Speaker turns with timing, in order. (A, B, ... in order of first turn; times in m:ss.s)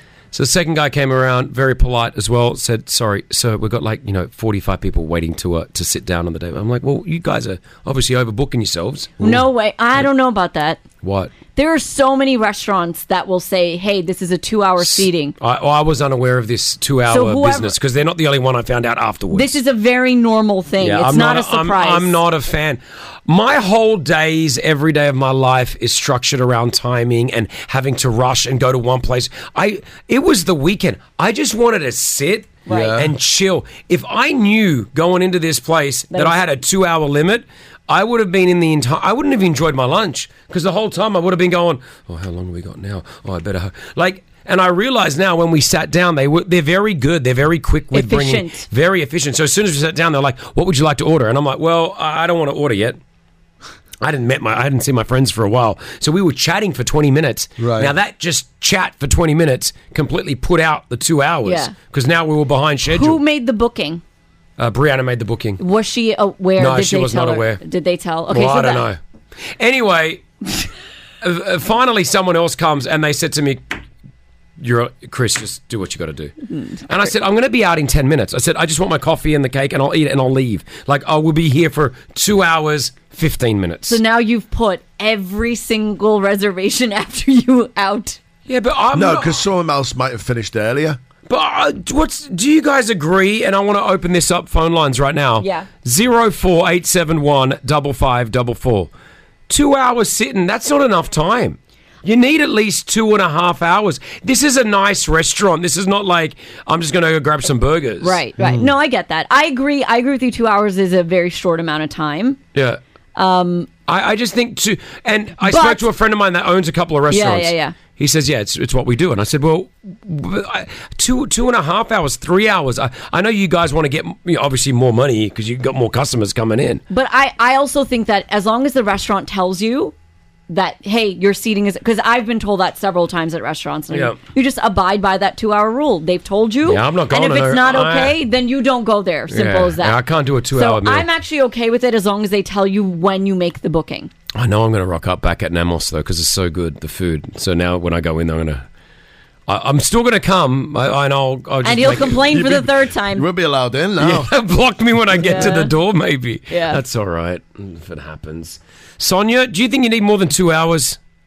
0:00.3-0:09.4 A
0:09.2-0:10.8 B
0:11.0-0:11.3 A
0:11.5-0:15.3 B
0:14.8-0:19.6 A
0:17.1-0:17.7 B
0:19.3-0:22.2 B
0:20.8-0:53.0 A
0:32.6-0:33.0 B
0:32.7-0:33.1 C
0:36.1-0:36.4 B
0:47.9-0:48.6 B
0:54.0-1:03.2 A
0:57.6-0:57.9 C
1:01.4-1:01.7 B
1:02.9-1:04.0 B
1:04.6-1:05.6 A
1:05.6-1:08.8 B
1:06.6-1:07.6 A
1:08.3-1:09.0 A
1:09.6-1:10.2 A
1:11.2-1:13.7 A
1:14.6-1:24.0 A
1:16.5-1:16.8 B
1:23.9-1:28.2 B
1:28.5-1:29.4 A
1:28.9-1:31.0 C
1:31.3-1:38.9 A
1:35.4-1:35.7 B
1:39.5-1:48.2 A
1:48.0-1:52.4 B
1:48.4-1:48.7 C
1:52.5-1:52.8 A
1:53.2-1:53.7 B
1:53.9-2:06.8 A
1:55.4-1:55.8 B
1:57.1-1:57.8 B
2:06.9-2:09.9 B
2:10.5-2:20.0 B
2:13.9-2:14.2 A
2:16.6-2:18.2 A
2:19.3-2:21.1 A
2:20.5-2:24.1 B
2:24.3-2:28.6 A
2:29.5-2:32.5 A
2:31.6-2:33.3 B
2:32.3-2:34.3 C
2:34.0-2:41.0 A
2:35.2-2:35.7 B
2:36.5-2:36.8 B